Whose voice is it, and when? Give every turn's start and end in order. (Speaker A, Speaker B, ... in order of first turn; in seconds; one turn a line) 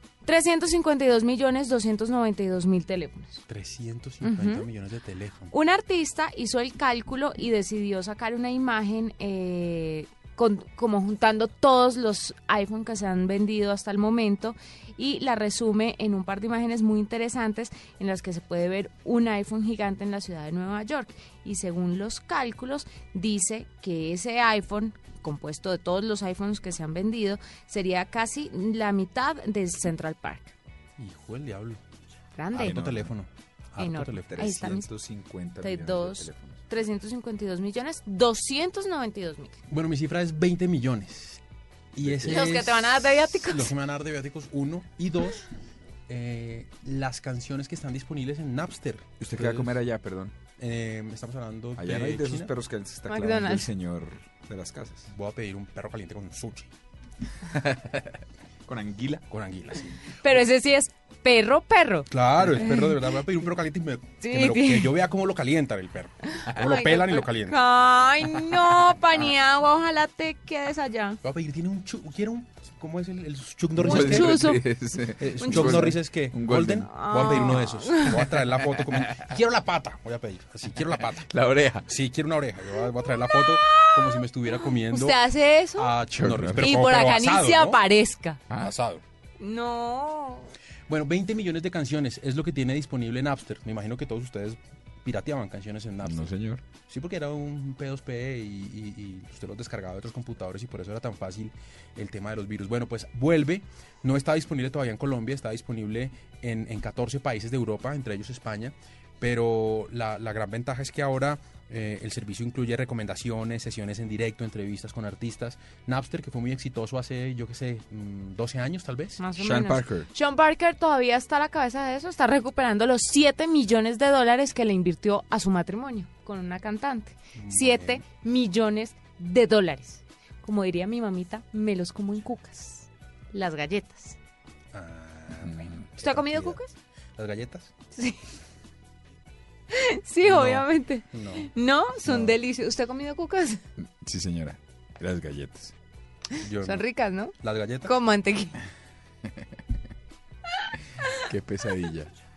Speaker A: 0.2-3.4
Speaker B: 3.5-5.5
Speaker A: 4.2-4.7
Speaker A: 5.5-30.5
Speaker B: 31.0-31.8
Speaker A: 32.4-32.8
Speaker C: 32.5-33.1
Speaker B: 32.5-34.5
Speaker A: 33.8-34.9
Speaker C: 34.3-36.7
Speaker A: 35.6-39.6
Speaker B: 39.7-41.4
Speaker B: 42.0-45.5
Speaker C: 42.0-42.5
Speaker A: 42.3-43.7
Speaker B: 46.1-49.8
Speaker C: 49.2-50.3
Speaker B: 50.6-52.5
Speaker C: 51.8-55.1
Speaker A: 53.1-53.7
Speaker B: 55.1-56.7
Speaker C: 57.4-59.2
Speaker B: 59.3-60.2
Speaker A: 60.1-63.1
Speaker B: 62.1-67.6
Speaker A: 64.2-64.9
Speaker A: 66.2-71.2
Speaker B: 71.2-74.4
Speaker C: 73.8-77.6
Speaker A: 73.8-74.6
Speaker B: 75.2-81.3
Speaker A: 75.4-76.0
Speaker A: 76.7-78.4
Speaker C: 79.0-79.2
Speaker C: 81.0-81.9
Speaker B: 81.9-85.2
Speaker A: 83.0-86.0
Speaker B: 85.8-87.8
Speaker C: 86.1-86.8
Speaker A: 86.6-88.4
Speaker B: 88.6-89.0
Speaker A: 89.4-90.5
Speaker B: 90.9-119.3
Speaker C: 96.0-96.7
Speaker A: 119.2-134.2
Speaker C: 119.4-120.1
Speaker B: 127.4-128.0
Speaker B: 134.7-136.6
Speaker C: 135.5-135.7
Speaker A: 136.0-136.7
Speaker B: 137.2-137.7
Speaker A: 137.9-138.2
Speaker A: 139.7-143.6
Speaker B: 140.2-141.5
Speaker C: 143.8-145.7
Speaker B: 146.4-146.9
Speaker A: 146.4-148.6
Speaker B: 147.4-147.9
Speaker C: 151.2-152.1